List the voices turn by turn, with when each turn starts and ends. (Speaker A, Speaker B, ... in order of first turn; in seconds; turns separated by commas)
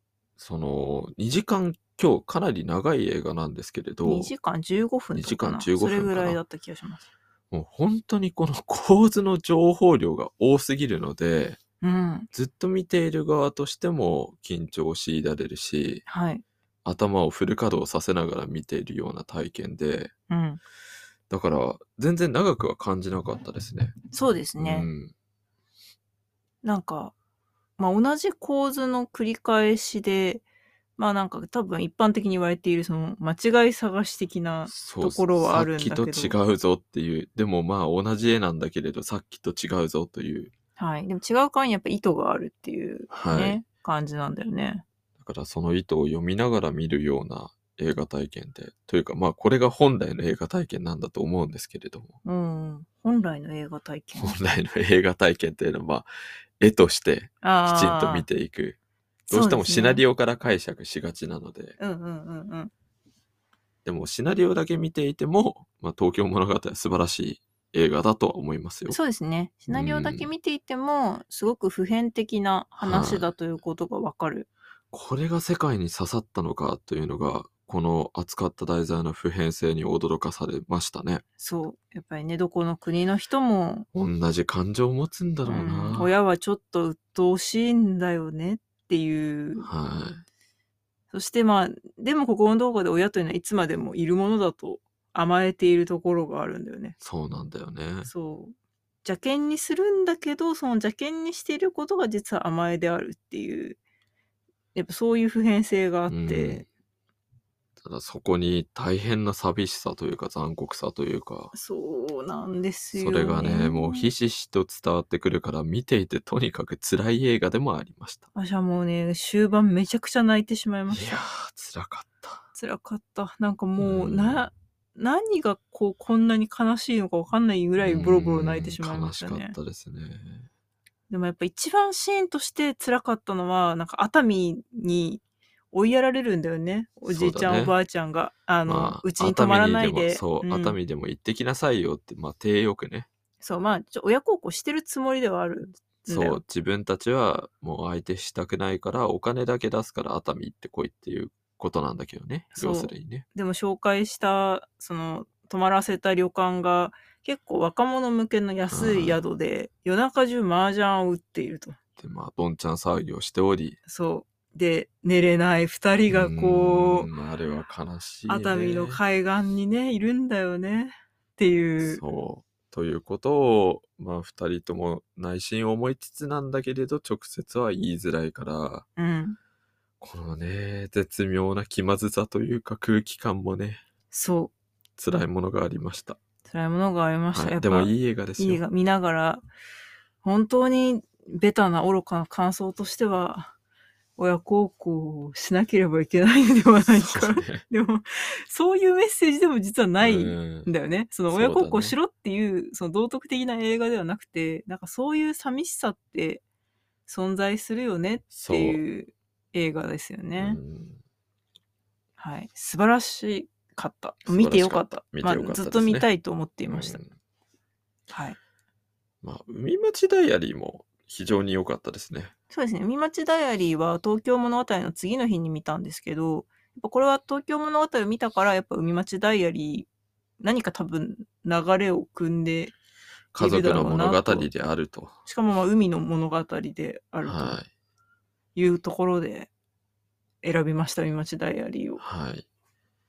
Speaker A: 0.4-4.3, Speaker B: 4.0-7.0, Speaker A: 5.1-6.4, Speaker A: 7.5-11.6, Speaker B: 11.8-12.3, Speaker A: 12.3-16.0, Speaker B: 16.1-16.4, Speaker A: 16.8-20.1, Speaker B: 20.3-20.6, Speaker A: 21.3-23.9, Speaker B: 24.1-24.9, Speaker A: 24.6-25.1, Speaker B: 26.6-27.1, Speaker B: 27.8-30.4, Speaker B: 31.0-36.4, Speaker A: 34.7-40.5, Speaker B: 40.8-44.8, Speaker A: 43.1-43.6, Speaker A: 45.2-52.1, Speaker B: 52.2-54.4, Speaker A: 54.2-56.1, Speaker A: 56.6-58.8, Speaker B: 57.4-58.3, Speaker B: 59.3-60.0, Speaker A: 59.3-61.8, Speaker B: 61.8-62.7, Speaker A: 63.8-69.0, Speaker B: 68.9-74.5, Speaker A: 69.7-70.3, Speaker A: 72.8-73.3, Speaker A: 74.9-81.2, Speaker B: 81.4-83.8, Speaker A: 83.9-86.1, Speaker B: 85.4-89.7, Speaker A: 89.6-90.2, Speaker B: 91.1-97.0, Speaker A: 97.0-98.1, Speaker B: 98.0-103.8, Speaker B: 104.7-106.6, Speaker A: 106.1-106.6, Speaker A: 107.8-111.5, Speaker B: 111.5-114.1, Speaker A: 112.9-118.3, Speaker B: 118.3-121.2, Speaker A: 120.9-122.4, Speaker B: 122.5-129.5, Speaker A: 123.8-124.5, Speaker A: 127.8-130.5, Speaker B: 131.1-140.8, Speaker A: 137.1-137.7, Speaker A: 138.7-143.1, Speaker B: 143.4-146.4, Speaker A: 146.1-153.2, Speaker B: 152.5-161.8, Speaker A: 158.7-159.2, Speaker A: 162.0-163.8, Speaker B: 163.9-167.1, Speaker A: 166.1-169.0, Speaker B: 168.3-172.0, Speaker A: 171.8-178.8, Speaker B: 179.0-179.4, Speaker A: 180.0-183.8, Speaker B: 184.1-184.5, Speaker A: 185.0-186.2, Speaker B: 186.4-189.4, Speaker A: 187.3-188.6, Speaker B: 190.2-193.5, Speaker B: 194.2-206.4, Speaker A: 196.8-197.6, Speaker A: 200.0-200.7, Speaker A: 201.3-201.9, Speaker B: 207.1-210.6, Speaker A: 208.3-208.8, Speaker A: 210.3-211.0, Speaker B: 212.2-217.0, Speaker A: 214.2-216.1, Speaker A: 216.7-217.1, Speaker B: 218.1-218.4, Speaker A: 219.2-222.3, Speaker B: 222.5-229.9, Speaker B: 230.4-232.7, Speaker A: 233.3-235.1, Speaker B: 233.4-234.5, Speaker B: 235.2-237.6, Speaker A: 237.2-237.7, Speaker B: 238.6-239.5, Speaker B: 240.4-242.0, Speaker A: 242.0-242.4